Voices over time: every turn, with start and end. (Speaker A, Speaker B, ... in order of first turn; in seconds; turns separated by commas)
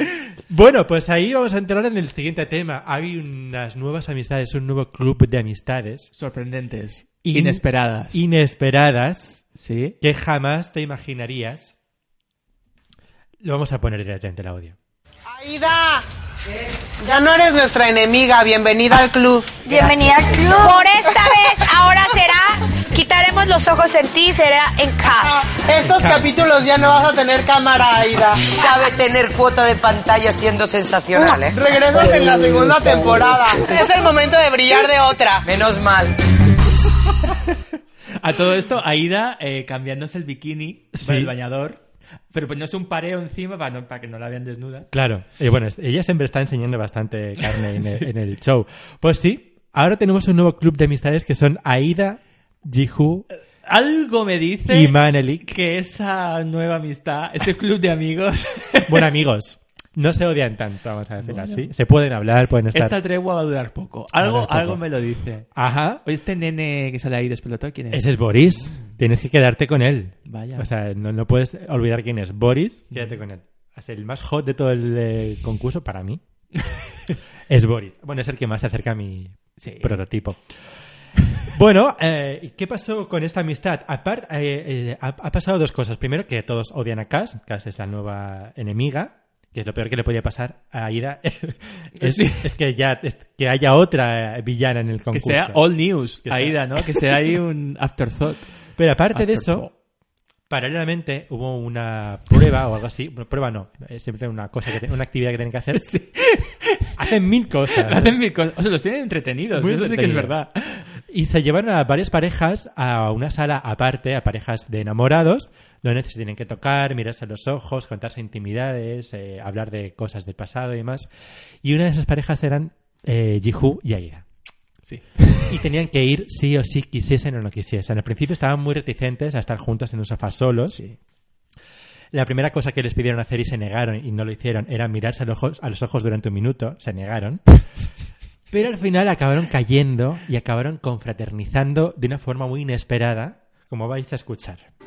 Speaker A: 0.5-6.1, Speaker B: 6.1-8.2, Speaker A: 7.2-9.5, Speaker B: 9.6-10.0, Speaker A: 10.0-11.7, Speaker A: 13.4-14.8, Speaker C: 15.3-16.0, Speaker C: 17.0-19.9, Speaker D: 19.6-25.5, Speaker C: 20.4-20.8, Speaker C: 25.6-28.6, Speaker A: 25.8-26.3, Speaker E: 28.6-31.5, Speaker C: 31.2-35.5, Speaker E: 35.5-36.1, Speaker B: 38.2-44.9, Speaker A: 41.0-41.3, Speaker A: 44.9-53.2, Speaker B: 47.5-48.1, Speaker B: 53.7-59.1, Speaker A: 54.7-55.5, Speaker A: 58.9-63.0, Speaker B: 61.2-61.7, Speaker B: 62.7-65.5, Speaker A: 64.2-64.8, Speaker A: 65.5-66.0, Speaker B: 66.0-68.1, Speaker A: 67.9-76.2, Speaker B: 68.6-69.0, Speaker B: 70.3-70.7, Speaker A: 77.5-80.4, Speaker B: 79.6-80.0, Speaker A: 81.5-95.7, Speaker B: 92.0-92.5, Speaker B: 95.1-98.5, Speaker A: 96.2-97.2, Speaker A: 98.8-99.7, Speaker B: 99.1-99.7, Speaker A: 100.5-105.9, Speaker B: 105.7-106.9, Speaker A: 107.0-108.2, Speaker B: 107.8-110.9, Speaker A: 109.5-110.4, Speaker A: 111.1-121.1, Speaker A: 121.6-124.2, Speaker B: 124.9-125.5, Speaker A: 125.5-130.8, Speaker B: 130.7-131.0, Speaker A: 132.1-137.4, Speaker A: 138.5-144.7